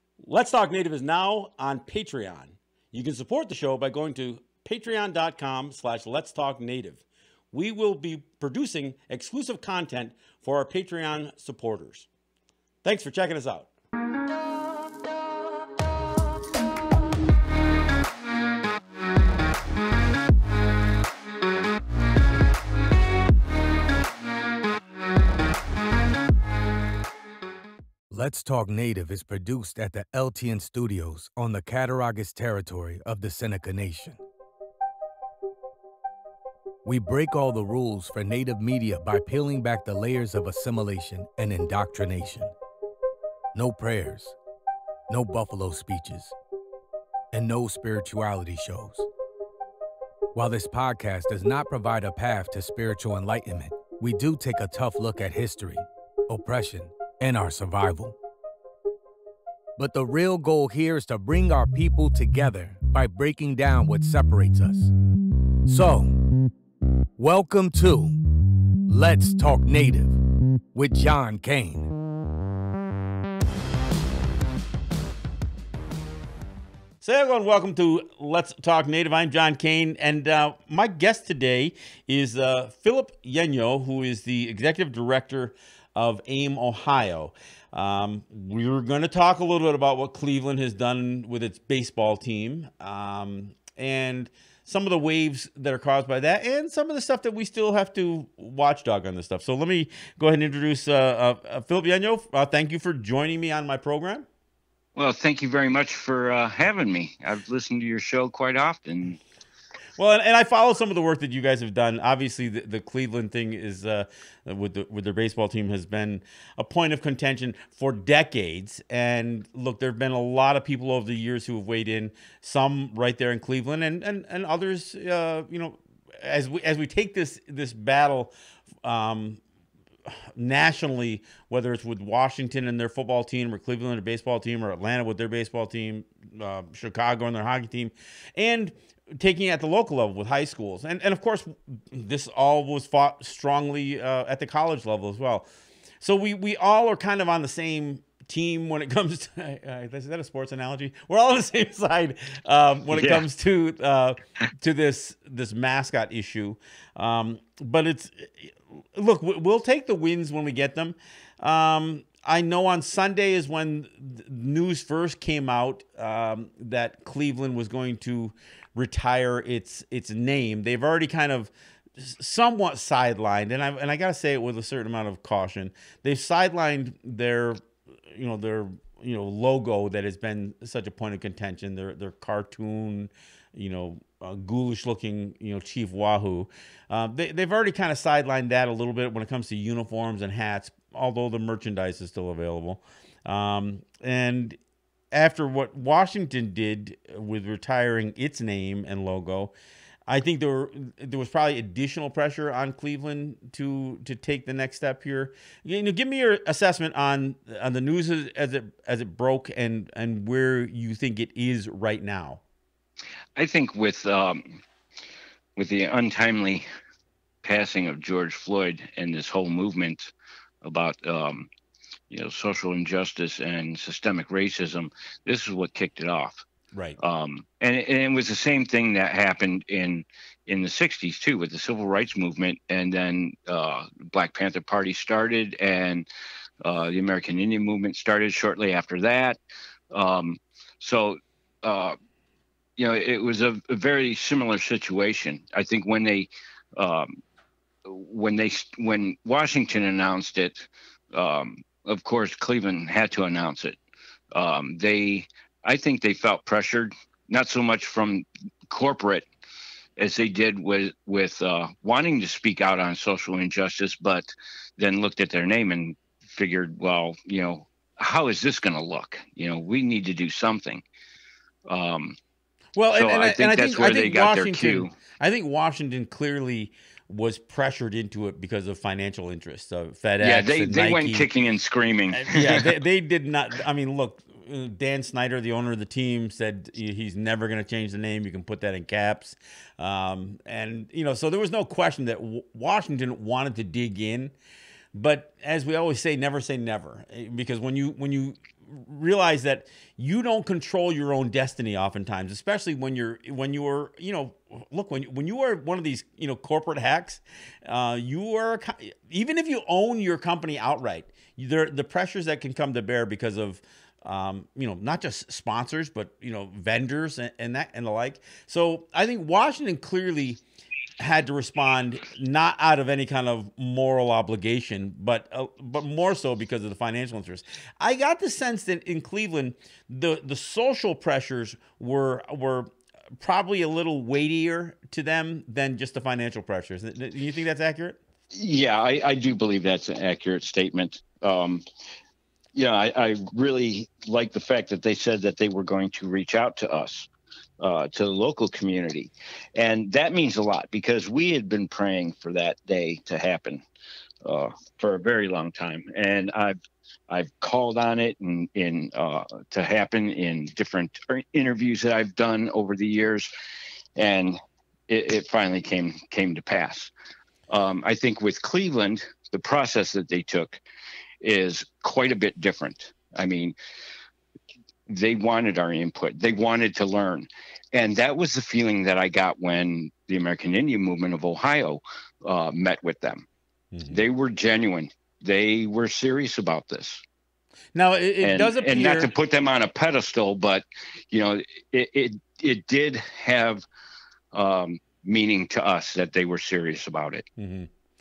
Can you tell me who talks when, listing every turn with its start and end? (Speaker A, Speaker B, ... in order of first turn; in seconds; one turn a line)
Speaker A: 0.2-12.1
Speaker A: 12.8-13.7
Speaker B: 28.1-34.2
Speaker B: 36.8-42.5
Speaker B: 43.5-44.4
Speaker B: 45.1-46.3
Speaker B: 47.3-49.1
Speaker B: 50.3-58.1
Speaker B: 59.8-64.9
Speaker B: 65.7-66.2
Speaker B: 67.2-68.2
Speaker B: 68.9-70.2
Speaker B: 70.7-71.9
Speaker A: 77.0-104.2
Speaker C: 105.0-109.2
Speaker A: 110.0-129.4
Speaker A: 130.3-145.5
Speaker A: 146.0-194.6
Speaker C: 152.9-153.2
Speaker A: 195.1-199.5
Speaker A: 200.1-212.4
Speaker C: 213.3-214.6
Speaker C: 215.6-216.6
Speaker C: 217.4-220.1
Speaker C: 220.6-221.5
Speaker C: 222.1-226.4
Speaker C: 227.0-236.1
Speaker C: 236.6-239.4
Speaker C: 239.9-241.9
Speaker C: 242.8-247.2
Speaker C: 247.8-253.8
Speaker C: 254.3-259.2
Speaker C: 260.0-270.8
Speaker C: 271.7-272.2
Speaker A: 272.8-281.3
Speaker C: 272.9-274.9
Speaker C: 280.2-282.7
Speaker A: 282.1-294.3
Speaker A: 294.9-320.4
Speaker A: 321.0-332.7
Speaker A: 333.2-338.0
Speaker C: 338.3-341.6
Speaker C: 342.5-347.1
Speaker C: 347.6-353.6
Speaker C: 354.2-356.6
Speaker C: 357.1-363.3
Speaker C: 363.9-364.4
Speaker C: 364.9-366.9
Speaker C: 367.5-370.6
Speaker C: 371.2-373.6
Speaker C: 374.9-383.2
Speaker A: 383.7-384.0
Speaker C: 383.9-387.0
Speaker A: 387.7-389.1
Speaker C: 388.2-393.6
Speaker C: 394.3-397.2
Speaker A: 397.4-397.7